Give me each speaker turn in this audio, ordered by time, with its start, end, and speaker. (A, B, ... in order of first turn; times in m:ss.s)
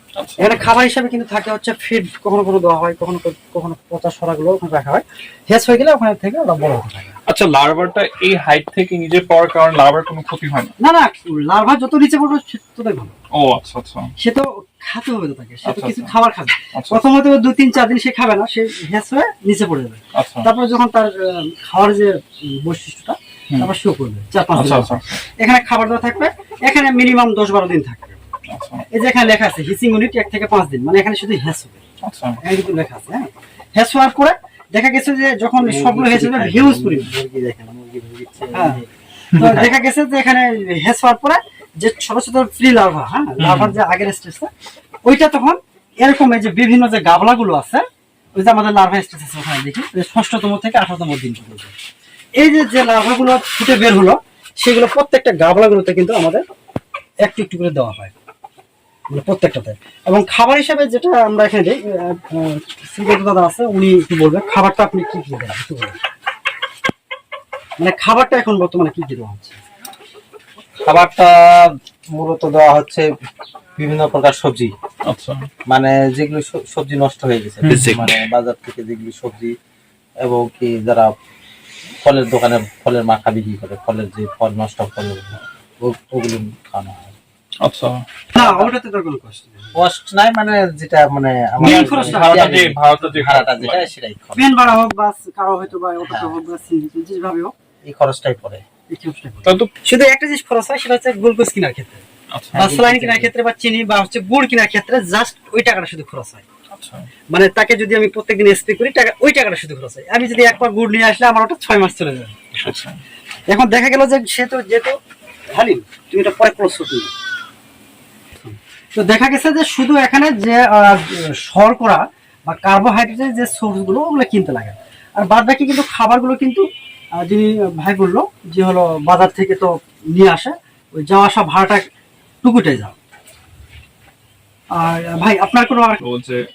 0:00.1-0:00.7 A
0:00.4-0:07.2 B
0:07.3-0:10.7 A
0:10.8-0:13.1 B
0:13.3-0:14.1 A
0:14.2-0:28.2 B
0:15.6-0:16.1 A
0:16.7-0:17.0 A
0:20.1-0:20.5 A
0:24.5-0:25.2 A
0:28.5-0:28.9 A
0:28.9-0:31.8 B
0:32.0-0:32.4 A
0:32.4-0:37.1 B
0:35.6-0:39.7 C
0:38.5-0:38.8 B
0:39.3-0:39.6 A
0:39.4-0:44.5 B
0:43.4-0:43.7 A
0:45.0-0:47.8 B
0:48.3-0:51.7 B
0:52.4-0:56.4 B
0:57.2-0:58.1 B
0:59.1-1:06.0 B
1:07.8-1:09.6 B
1:10.8-1:13.1 C
1:13.8-1:14.7 C
1:15.0-1:15.5 A
1:15.7-1:19.5 C
1:17.6-1:18.0 A
1:20.2-1:21.1 C
1:22.0-1:27.1 C
1:27.6-1:28.0 A
1:28.3-1:29.7 B
1:28.4-1:28.7 C
1:29.7-1:34.5 C
1:31.6-1:32.6 B
1:31.6-1:33.9 A
1:34.3-1:37.5 B
1:36.1-1:36.3 C
1:37.8-1:38.6 C
1:38.9-1:42.0 B
1:39.4-1:39.7 A
1:42.3-1:42.6 A
1:42.5-1:43.3 C
1:42.5-1:46.4 B
1:46.7-1:47.1 A
1:47.3-1:52.8 B
1:52.6-1:53.0 A
1:53.5-1:55.0 B
1:55.5-1:57.1 B
1:58.4-2:06.6 B
2:07.2-2:11.8 B
2:12.4-2:13.0 B
2:14.8-2:16.0 B
2:16.0-2:16.4 A